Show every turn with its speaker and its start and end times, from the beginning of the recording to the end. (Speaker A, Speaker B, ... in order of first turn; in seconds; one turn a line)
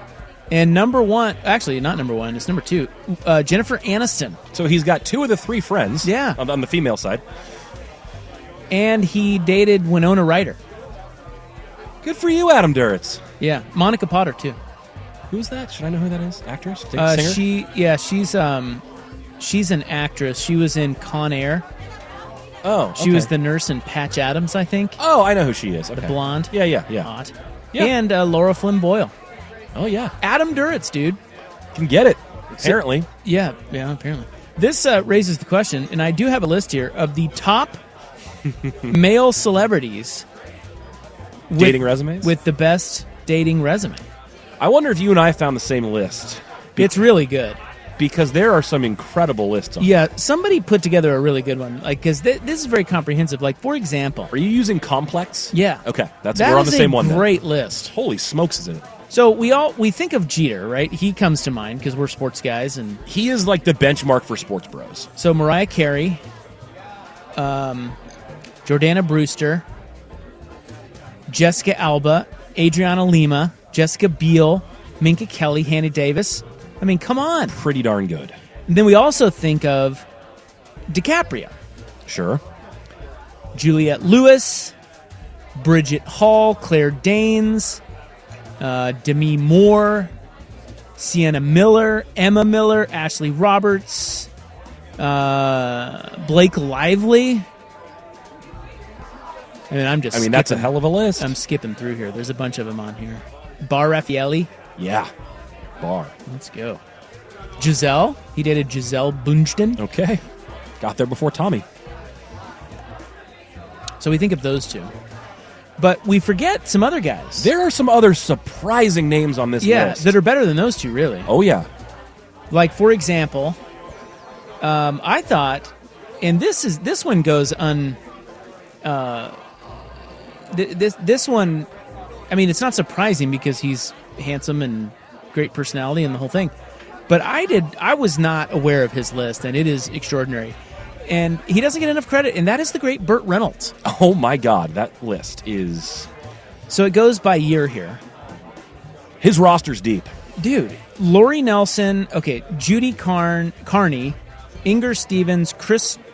Speaker A: 0.5-4.4
Speaker B: 4.5-7.2
Speaker A: 6.0-6.4
Speaker A: 8.7-10.6
Speaker B: 12.0-13.2
Speaker A: 13.4-14.6
Speaker B: 15.3-17.4
Speaker A: 17.0-18.8
Speaker A: 19.4-21.6
Speaker B: 22.6-23.3
Speaker A: 23.0-25.0
Speaker B: 25.0-27.1
Speaker A: 26.0-29.1
Speaker B: 29.8-30.1
Speaker A: 30.2-31.2
Speaker B: 31.7-33.1
Speaker A: 32.6-37.8
Speaker A: 38.9-40.2
Speaker A: 41.5-44.0
Speaker B: 41.6-42.3
Speaker B: 44.6-47.0
Speaker A: 46.8-47.6
Speaker B: 48.0-49.9
Speaker A: 49.8-54.3
Speaker B: 54.3-58.9
Speaker A: 55.5-55.8
Speaker A: 56.3-57.9
Speaker A: 59.1-63.0
Speaker B: 63.1-65.1
Speaker A: 65.2-66.2
Speaker A: 67.4-68.0
Speaker A: 68.7-69.7
Speaker A: 71.3-77.5
Speaker B: 77.5-78.4
Speaker A: 78.7-80.1
Speaker A: 80.9-81.5
Speaker B: 82.1-82.4
Speaker A: 83.5-84.7
Speaker A: 85.6-87.8
Speaker A: 88.6-90.1
Speaker A: 91.0-94.3
Speaker A: 95.0-97.5
Speaker A: 99.7-104.5
Speaker B: 100.1-101.3
Speaker B: 104.8-105.1
Speaker B: 105.8-106.1
Speaker A: 106.3-106.8
Speaker A: 107.6-109.8
Speaker B: 109.8-110.2
Speaker B: 110.8-111.7
Speaker A: 114.0-114.9
Speaker A: 115.8-117.5
Speaker B: 117.4-120.2
Speaker A: 119.6-121.3
Speaker B: 121.3-121.7
Speaker A: 122.5-123.6
Speaker A: 124.6-128.0
Speaker A: 128.8-129.4
Speaker A: 130.5-131.7
Speaker A: 132.3-136.5
Speaker A: 137.1-143.8
Speaker B: 143.8-146.1
Speaker A: 146.7-148.0
Speaker B: 149.2-150.1
Speaker A: 150.4-156.0